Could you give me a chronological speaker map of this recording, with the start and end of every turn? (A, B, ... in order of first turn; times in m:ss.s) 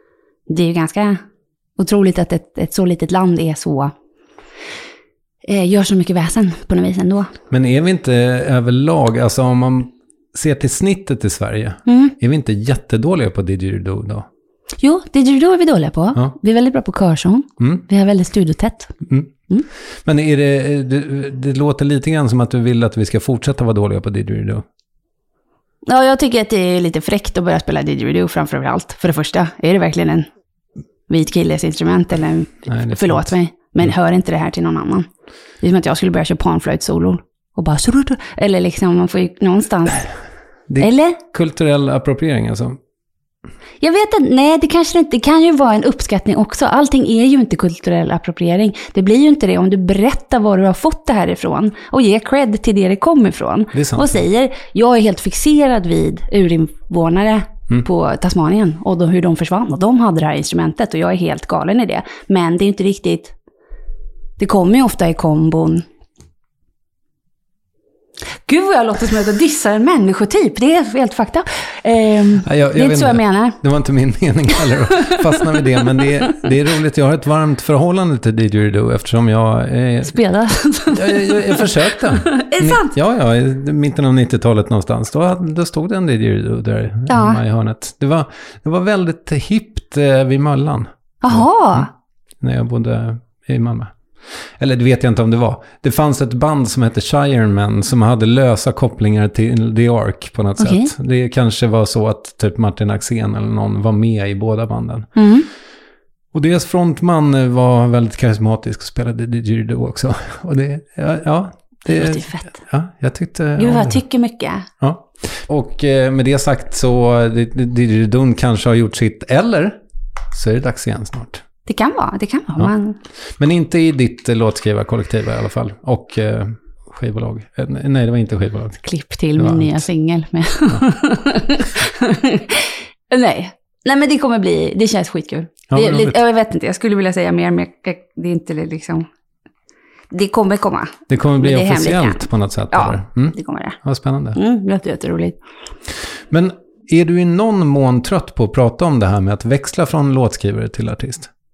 0:00.5-0:01.2 A
0:01.8-0:03.9 A
0:05.4-0:07.3 A
0:07.5-0:14.3 B
0:11.9-0:12.2 A
0:14.8-0:19.0 A
0:17.6-0:17.9 B
0:19.1-0:19.3 B
0:20.0-0:24.6 B
0:25.8-0:30.3 A
0:31.1-0:35.1 A
0:32.7-0:33.3 B
0:35.6-0:40.1 A
0:40.7-0:42.8 B
0:40.8-0:41.2 A
0:43.8-1:03.4 A
0:53.7-0:54.2 B
1:04.4-1:05.9 A
1:08.4-1:13.6 A
1:12.4-1:20.2 B
1:14.6-1:16.5 A
1:20.1-1:23.0 A
1:20.9-1:31.9 B
1:27.1-1:27.4 A
1:31.2-1:31.9 A
1:32.4-1:33.9 B
1:34.6-1:45.1 B
1:40.6-1:40.9 A
1:45.2-1:45.5 A
1:46.3-1:54.0 B
1:51.9-1:52.6 A
1:53.6-1:54.7 A
1:54.8-1:59.8 B
2:00.3-2:01.4 B
2:01.7-2:03.0 A
2:03.4-2:08.8 B
2:08.8-2:19.1 A
2:09.4-2:09.8 B
2:15.7-2:16.2 B
2:20.1-2:23.8 A
2:21.1-2:24.4 B
2:24.4-2:25.4 A
2:26.3-2:31.3 B